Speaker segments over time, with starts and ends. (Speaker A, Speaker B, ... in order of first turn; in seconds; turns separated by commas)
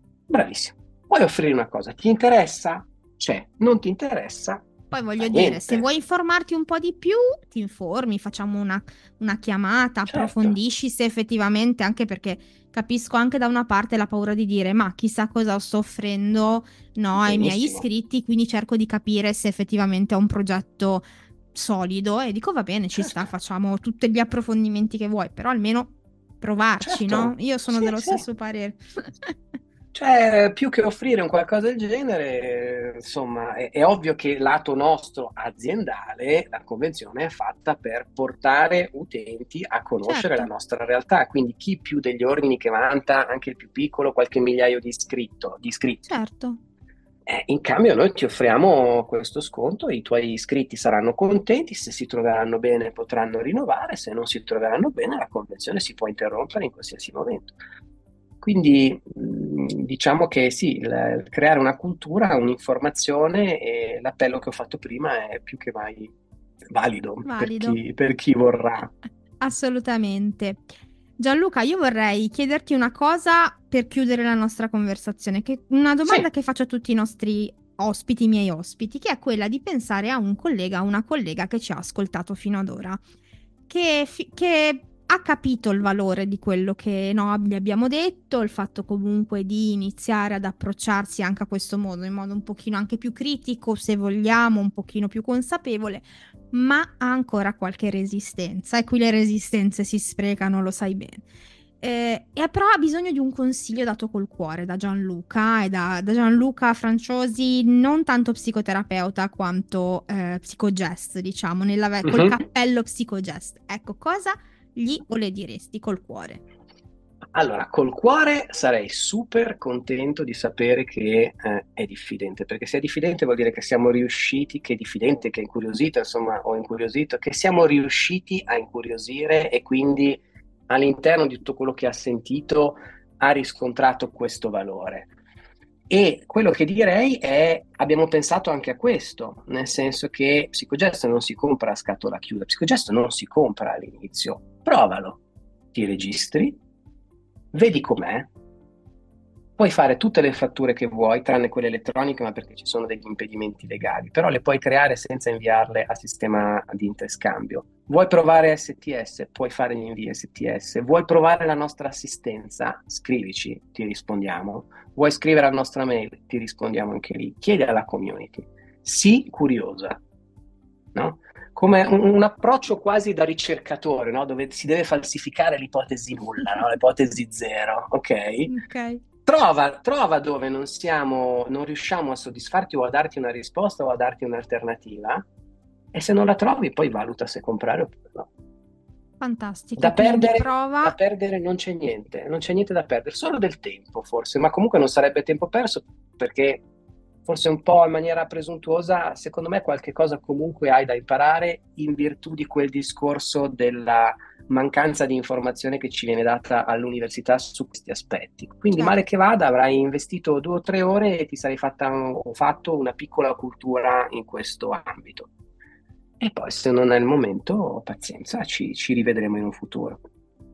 Speaker A: 0.3-4.7, Speaker B: 4.9-29.3, Speaker A: 5.2-5.8, Speaker A: 10.1-10.6, Speaker A: 17.1-17.9, Speaker A: 23.0-23.3, Speaker A: 26.8-28.2, Speaker A: 29.9-46.1, Speaker B: 40.0-40.5, Speaker B: 46.1-46.6, Speaker A: 47.2-57.5, Speaker A: 58.4-66.1, Speaker A: 66.7-68.9, Speaker B: 67.2-67.8, Speaker B: 69.4-83.0, Speaker B: 83.7-101.2, Speaker B: 101.8-116.4, Speaker A: 112.0-112.4, Speaker A: 117.3-135.1, Speaker A: 135.9-145.2, Speaker A: 145.7-146.6, Speaker A: 147.5-148.3, Speaker A: 149.6-170.0, Speaker A: 170.9-178.5, Speaker B: 178.5-179.0, Speaker A: 179.2-185.2, Speaker A: 185.9-188.3, Speaker B: 189.2-190.9, Speaker A: 189.8-196.6, Speaker A: 197.2-215.3, Speaker A: 216.2-220.0